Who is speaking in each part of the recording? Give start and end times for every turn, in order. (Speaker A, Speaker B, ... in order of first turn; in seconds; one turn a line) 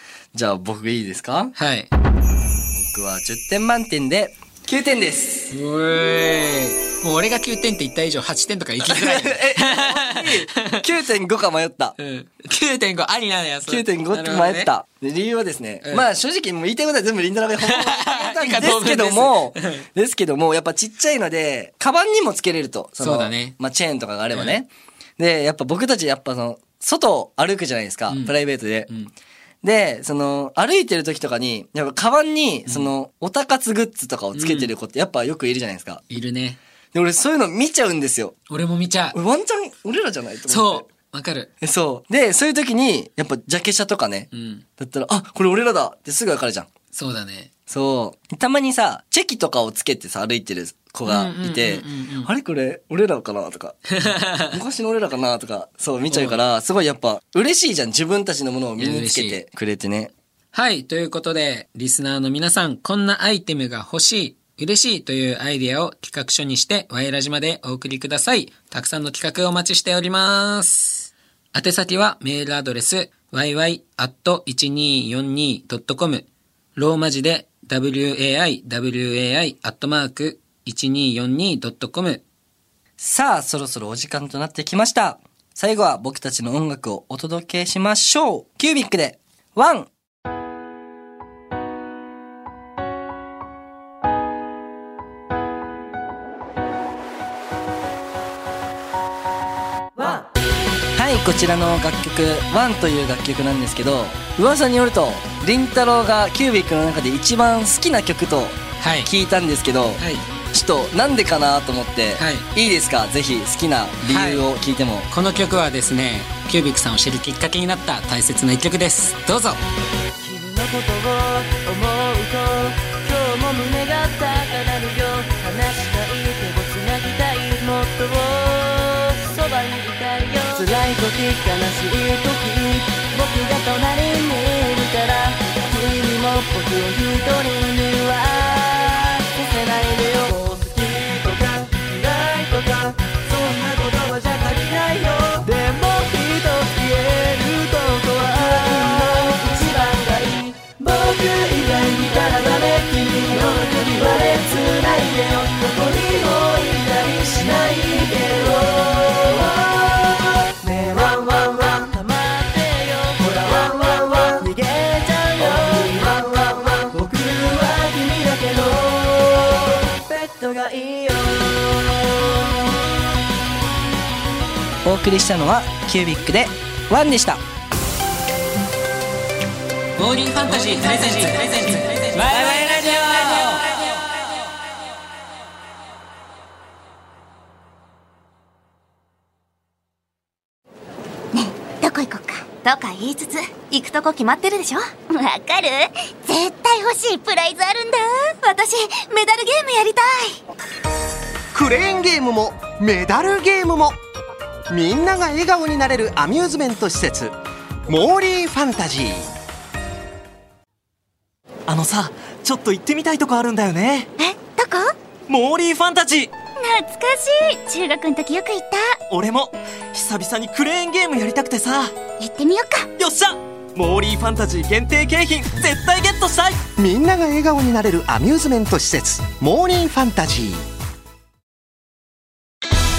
Speaker A: 0.3-1.5
Speaker B: 1.6-1.9
Speaker A: 2.7-5.5
Speaker B: 5.5-10.9
Speaker A: 8.8-12.0
Speaker B: 12.0-14.7
Speaker A: 13.7-28.9
Speaker B: 17.6-19.9
Speaker B: 23.0-23.6
Speaker B: 24.3-24.6
Speaker B: 28.1-28.4
Speaker A: 29.6-36.0
Speaker B: 34.3-34.7
Speaker B: 36.1-36.6
Speaker A: 36.9-38.4
Speaker B: 38.5-39.2
Speaker A: 39.1-40.9
Speaker B: 40.5-41.5
Speaker A: 41.6-46.7
Speaker B: 44.3-44.6
Speaker B: 46.9-47.5
Speaker A: 47.7-60.1
Speaker B: 51.1-52.3
Speaker B: 53.9-54.6
Speaker B: 56.1-56.4
Speaker B: 58.8-59.4
Speaker B: 60.5-82.2
Speaker A: 83.0-89.9
Speaker A: 100.9-115.1
Speaker B: 108.8-109.1
Speaker B: 110.0-110.2
Speaker B: 112.2-112.5
Speaker B: 114.0-114.5
Speaker B: 115.1-119.6
Speaker C: 120.2-172.6
Speaker A: 174.8-177.4
Speaker B: 180.0-183.9
Speaker D: 191.3-200.4
Speaker E: 201.5-204.0
Speaker E: 204.7-207.4
Speaker E: 207.9-209.3
Speaker F: 211.7-214.1
Speaker D: 214.2-214.9
Speaker F: 215.3-216.3
Speaker D: 216.6-219.0
Speaker F: 219.1-221.9
Speaker D: 222.2-222.9
Speaker F: 223.0-226.7
Speaker E: 226.8-230.7